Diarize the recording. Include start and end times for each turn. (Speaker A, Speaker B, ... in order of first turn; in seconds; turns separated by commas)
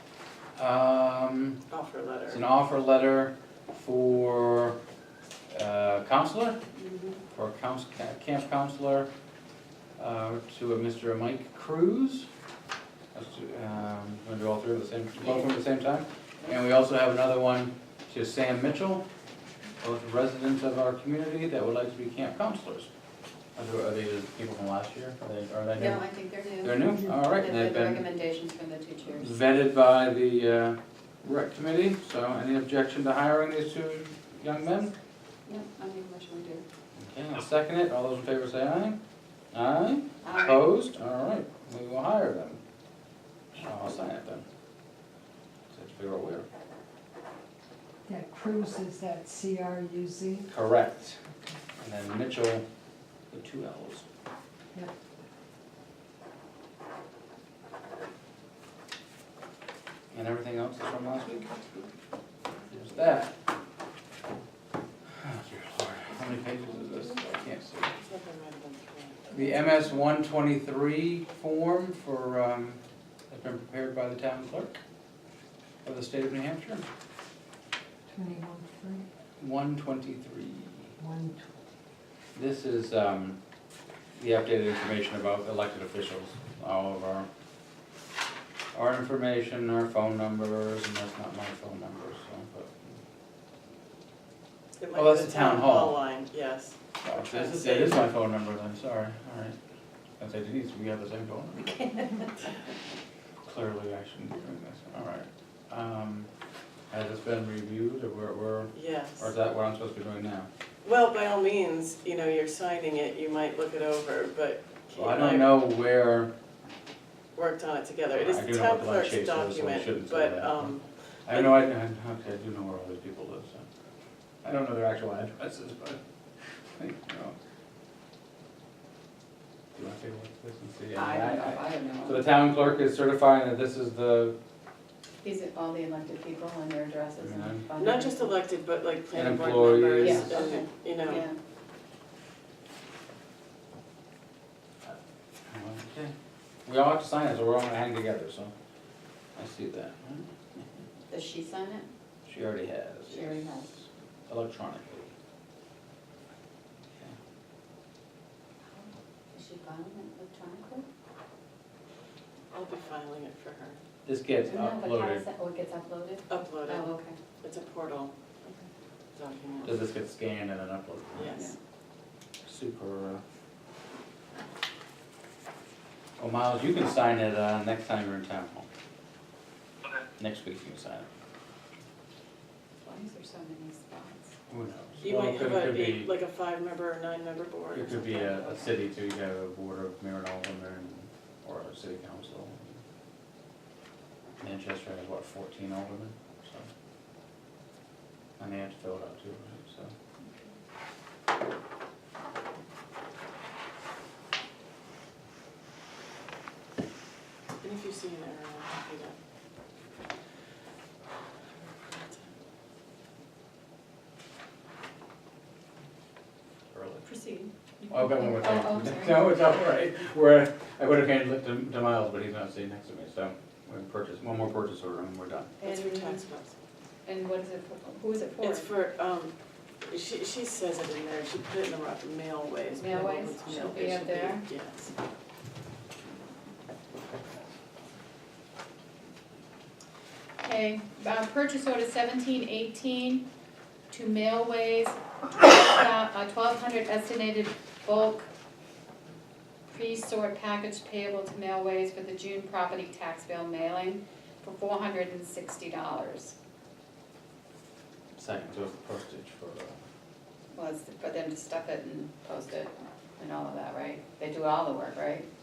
Speaker A: 0.6-1.6, Speaker B: 1.7-2.4, Speaker A: 2.3-4.8, Speaker A: 5.5-6.6, Speaker C: 6.8-7.2, Speaker A: 7.3-9.1, Speaker A: 10.0-12.3, Speaker A: 13.1-19.0, Speaker A: 19.8-22.9, Speaker A: 23.6-26.1, Speaker C: 25.8-26.8, Speaker A: 26.6-28.1, Speaker C: 27.3-29.3, Speaker A: 29.1-34.9, Speaker C: 35.5-36.6, Speaker A: 37.0-39.0, Speaker A: 39.5-42.6, Speaker C: 40.2-40.6, Speaker A: 43.5-44.5, Speaker A: 45.7-46.5, Speaker D: 48.1-50.5, Speaker A: 50.5-51.2, Speaker A: 51.8-52.6, Speaker A: 53.3-54.1, Speaker A: 60.1-61.5, Speaker A: 62.7-63.3, Speaker A: 65.2-67.9, Speaker B: 67.9-69.6, Speaker A: 69.3-74.8, Speaker A: 75.8-76.8, Speaker D: 78.1-79.1, Speaker A: 79.4-81.0, Speaker D: 81.0-81.5, Speaker A: 82.3-83.4, Speaker A: 84.2-87.3, Speaker A: 88.7-93.0, Speaker B: 94.8-98.0, Speaker A: 94.9-96.0, Speaker A: 97.0-99.6, Speaker A: 100.2-102.0, Speaker A: 103.4-106.3, Speaker A: 106.9-110.5, Speaker B: 108.7-109.3, Speaker B: 110.8-115.6, Speaker A: 115.0-116.3, Speaker B: 117.4-121.6, Speaker A: 118.1-120.8, Speaker A: 121.3-123.6, Speaker A: 124.4-126.0, Speaker A: 126.8-127.3, Speaker A: 129.7-134.4, Speaker C: 130.9-132.3, Speaker C: 135.2-138.3, Speaker A: 137.2-137.6, Speaker B: 137.8-141.2, Speaker A: 139.1-140.5, Speaker C: 140.0-141.4, Speaker A: 144.8-146.1, Speaker A: 146.7-148.5, Speaker A: 149.4-150.7, Speaker C: 151.1-151.9, Speaker A: 152.3-155.1, Speaker C: 153.1-153.7, Speaker C: 158.8-160.8, Speaker B: 162.5-163.8, Speaker A: 164.1-165.2, Speaker C: 164.4-167.2, Speaker B: 166.3-166.9, Speaker B: 167.4-168.1, Speaker B: 169.1-169.8, Speaker A: 169.6-171.3, Speaker B: 171.2-171.6, Speaker A: 172.4-173.2, Speaker A: 176.2-178.7, Speaker A: 180.2-181.1, Speaker C: 182.8-184.3, Speaker A: 184.5-186.1, Speaker B: 185.0-188.6, Speaker A: 187.7-192.8, Speaker A: 194.4-196.7, Speaker A: 198.4-199.9, Speaker B: 207.6-209.2, Speaker B: 211.6-212.3, Speaker A: 216.7-217.1, Speaker C: 217.1-219.3, Speaker A: 217.9-225.6, Speaker C: 225.6-226.2, Speaker B: 225.6-226.5, Speaker C: 227.1-228.7, Speaker B: 228.4-234.9, Speaker C: 232.8-234.4, Speaker C: 240.4-243.3, Speaker C: 243.9-248.3, Speaker C: 249.7-256.4, Speaker A: 258.1-259.8, Speaker C: 260.5-265.3